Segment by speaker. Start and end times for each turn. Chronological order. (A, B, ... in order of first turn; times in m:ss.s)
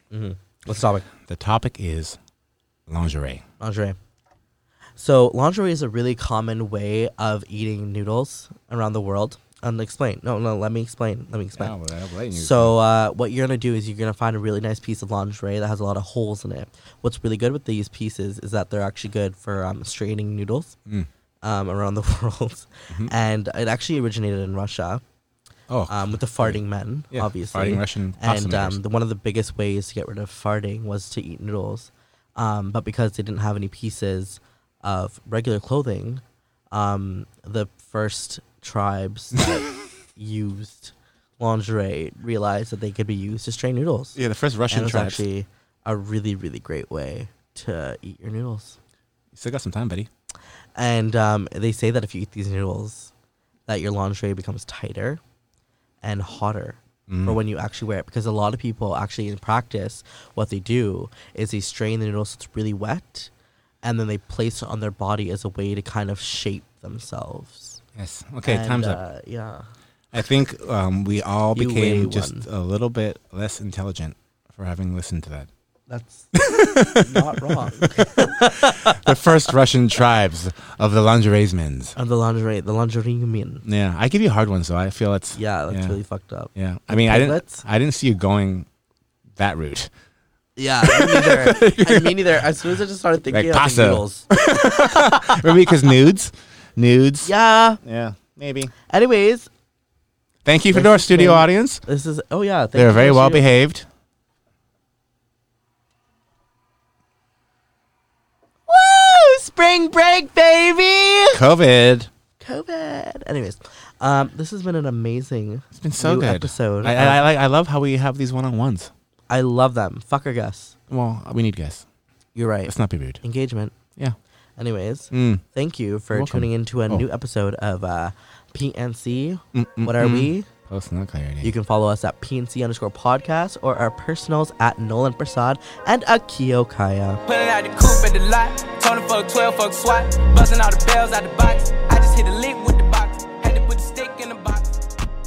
0:00.1-0:01.1 A
0:01.3-0:02.2 B
0:02.9-0:03.4 B
0:03.6-0:04.0 A
0:05.0-0:11.7 A
0:11.6-0:12.8 B
0:12.3-0:20.8 A
0:21.4-0:25.0 A
0:25.7-0:26.6 B
0:25.9-0:44.2 A
0:27.1-0:28.8 B
0:44.2-0:45.2 B
0:44.7-0:48.8 A
0:49.3-0:50.1 B
0:50.8-0:53.1 A
0:53.7-0:55.2 A
0:56.0-1:03.3 A
0:57.1-0:57.4 B
1:03.8-1:07.8 A
1:08.0-1:09.0 B
1:08.4-1:09.7 A
1:10.1-1:15.5 B
1:11.6-1:12.4 A
1:15.9-1:16.4 A
1:16.3-1:22.0 B
1:16.9-1:19.1 A
1:22.0-1:23.6 A
1:23.6-1:26.0 B
1:25.4-1:27.6 A
1:26.6-1:28.7 B
1:29.4-1:29.9 B
1:30.6-1:35.5 A
1:30.8-1:32.4 B
1:33.3-1:37.3 B
1:37.2-1:37.8 A
1:37.8-1:38.7 B
1:38.9-1:39.5 A
1:40.4-1:41.8 B
1:40.7-1:43.4 A
1:42.8-1:43.9 B
1:48.7-1:51.4 A
1:51.3-1:52.1 B
1:52.4-1:57.2 A
1:55.8-1:58.9 B
1:59.3-2:00.8 A
2:00.9-2:01.8 B
2:02.4-2:03.8 A
2:02.7-2:03.2 B
2:04.6-2:10.5 A
2:05.1-2:05.4 B
2:06.1-2:07.0 B
2:09.5-2:11.5 B
2:11.4-2:17.2 A
2:17.3-2:24.9 C